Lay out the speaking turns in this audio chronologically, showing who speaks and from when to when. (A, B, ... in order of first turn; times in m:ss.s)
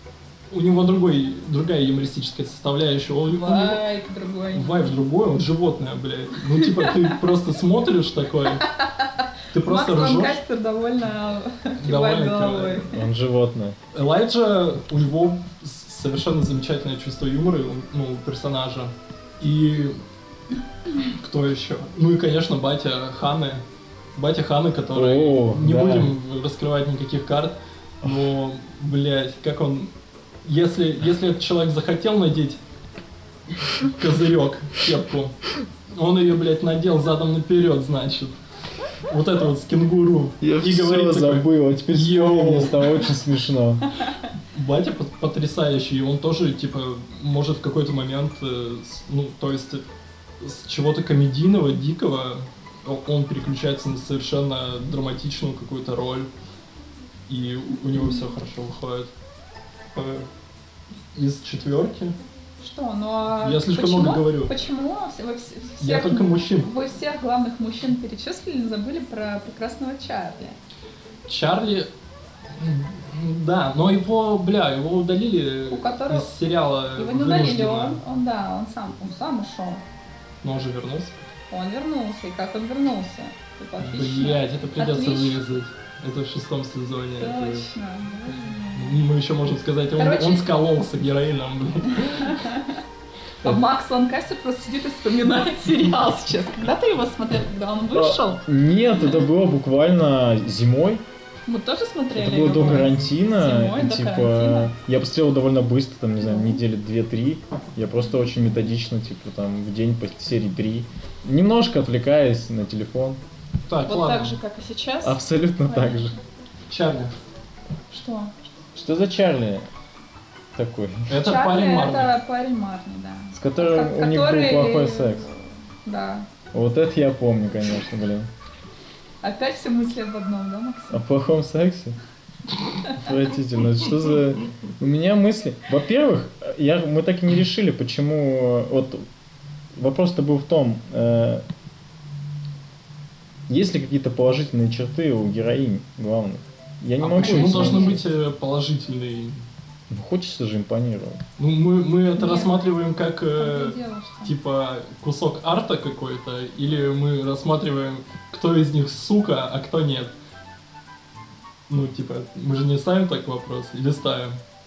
0:00.5-0:03.8 A
0:03.3-0:04.8 B
0:04.5-0:08.7 A
0:06.6-0:07.2 B
0:08.5-0:12.9 B
0:09.5-0:10.4 A
0:11.8-0:12.9 A
0:12.9-0:13.8 C
0:13.9-0:20.0 A
0:21.0-0:23.6 A
0:24.2-0:29.9 A
0:24.9-0:26.1 C
0:30.4-0:32.6 A
0:33.8-0:35.4 A
0:35.9-0:38.3 A
0:39.0-0:43.0 A
0:40.4-0:43.9 C
0:44.5-0:49.8 A
0:50.4-0:56.3 A
0:57.3-0:59.1 A
0:59.9-1:00.3 A
1:01.2-1:02.2 A
1:02.6-1:10.6 B
1:03.4-1:04.5 A
1:05.8-1:06.7 A
1:11.3-1:11.9 A
1:12.5-1:18.0 A
1:15.7-1:16.3 B
1:17.0-1:19.8 B
1:20.4-1:21.3 A
1:21.5-1:25.4 B
1:23.8-1:27.7 A
1:27.2-1:29.0 B
1:28.8-1:32.4 A
1:30.0-1:30.5 B
1:31.9-1:32.8 B
1:33.4-1:38.4 B
1:37.9-1:41.0 C
1:41.5-1:44.7 B
1:42.2-1:53.2 C
1:46.2-1:46.6 B
1:53.7-1:54.4 A
1:53.9-1:56.2 B
1:55.0-1:56.2 C
1:56.7-1:57.1 A
1:57.9-1:58.4 B
1:58.7-1:59.7 C
2:00.6-2:01.2 C
2:01.1-2:02.1 A
2:01.2-2:06.3 B
2:03.3-2:05.3 C
2:06.5-2:08.3 C
2:09.2-2:11.0 B
2:10.9-2:12.0 C
2:12.9-2:19.1 C
2:19.8-2:21.4 C
2:23.5-2:28.0 C
2:27.0-2:29.4 A
2:27.2-2:28.0 B
2:29.9-2:31.2 C
2:31.4-2:40.2 A
2:32.2-2:32.6 B
2:33.4-2:34.3 B
2:41.7-2:44.4 A